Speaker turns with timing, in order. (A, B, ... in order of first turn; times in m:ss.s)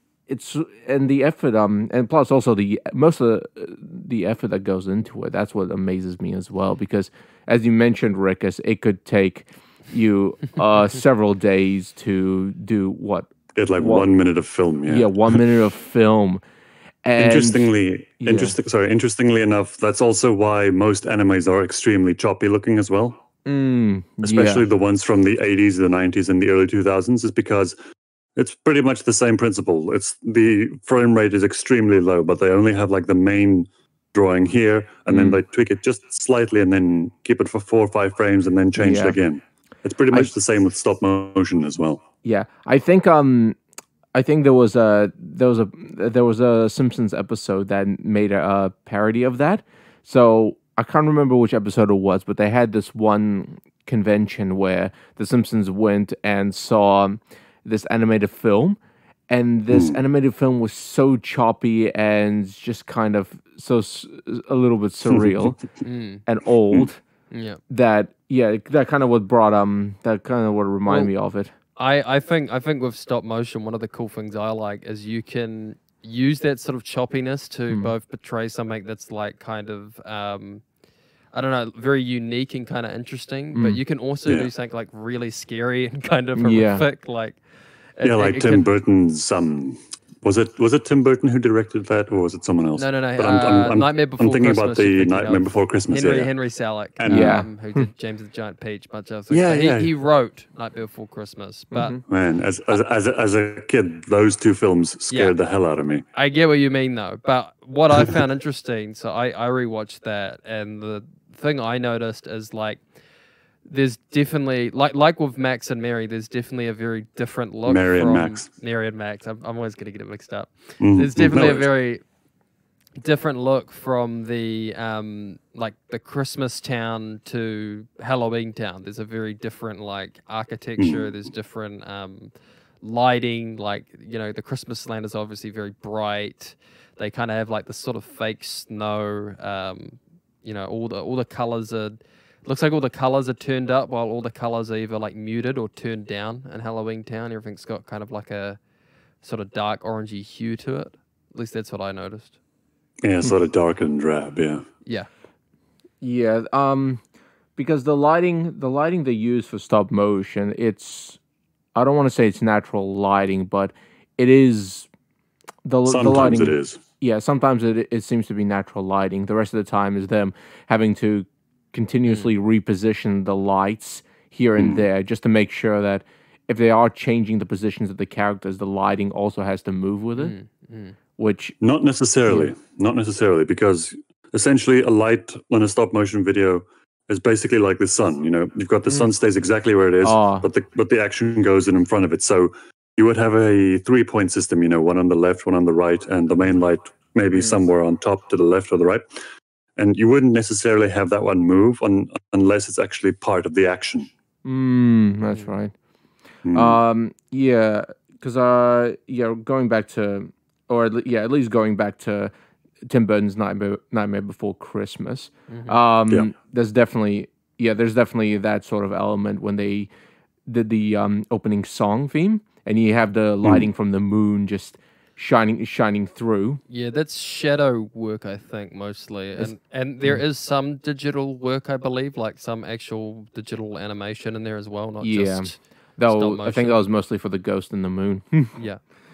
0:00.3-0:14.1 A
0:13.6-0:15.4 B
0:14.9-0:16.4 A
0:17.0-0:17.6 A
0:17.2-0:23.2 B
0:18.2-0:18.6 A
0:23.4-0:24.6 A
0:24.2-0:27.7 B
0:28.4-0:42.0 B
0:35.1-0:35.4 A
0:38.8-0:39.2 A
0:42.2-0:43.6 A
0:44.1-0:58.8 A
0:59.3-1:05.6 A
0:59.7-1:00.0 B
1:05.1-1:05.5 B
1:05.8-1:06.2 C
1:06.2-1:07.0 A
1:07.3-1:07.6 C
1:07.7-1:11.5 A
1:11.8-1:20.6 C
1:21.3-1:27.4 C
1:23.6-1:23.8 A
1:26.4-1:26.8 A
1:28.0-1:28.7 C
1:28.0-1:36.3 B
1:32.8-1:42.0 C
1:37.0-1:37.4 B
1:37.1-1:37.8 A
1:39.3-1:39.9 B
1:41.7-1:42.0 A
1:42.1-1:46.0 B
1:46.1-1:52.8 C
1:53.6-2:02.0 C
1:57.6-1:58.4 B
2:00.8-2:01.7 B
2:03.0-2:12.3 C
2:10.8-2:11.1 B
2:12.8-2:28.6 C
2:29.2-2:32.4 C
2:33.0-2:34.6 B
2:36.0-2:37.0 A
2:37.6-2:41.2 A
2:41.7-2:44.9 A
2:45.6-3:00.3 A
2:45.8-2:46.8 B
2:54.6-2:54.8 B
3:00.2-3:01.0 C
3:01.2-3:01.6 A
3:01.6-3:19.0 B
3:10.0-3:10.4 A
3:19.8-3:24.1 B
3:24.4-3:25.7 A
3:26.4-3:26.8 B
3:26.5-3:32.3 A
3:32.9-3:39.9 A
3:35.5-3:35.8 C
3:40.5-3:46.6 A
3:46.7-3:56.8 C
3:49.4-3:50.2 A
3:55.0-3:58.6 A
3:58.6-3:58.8 C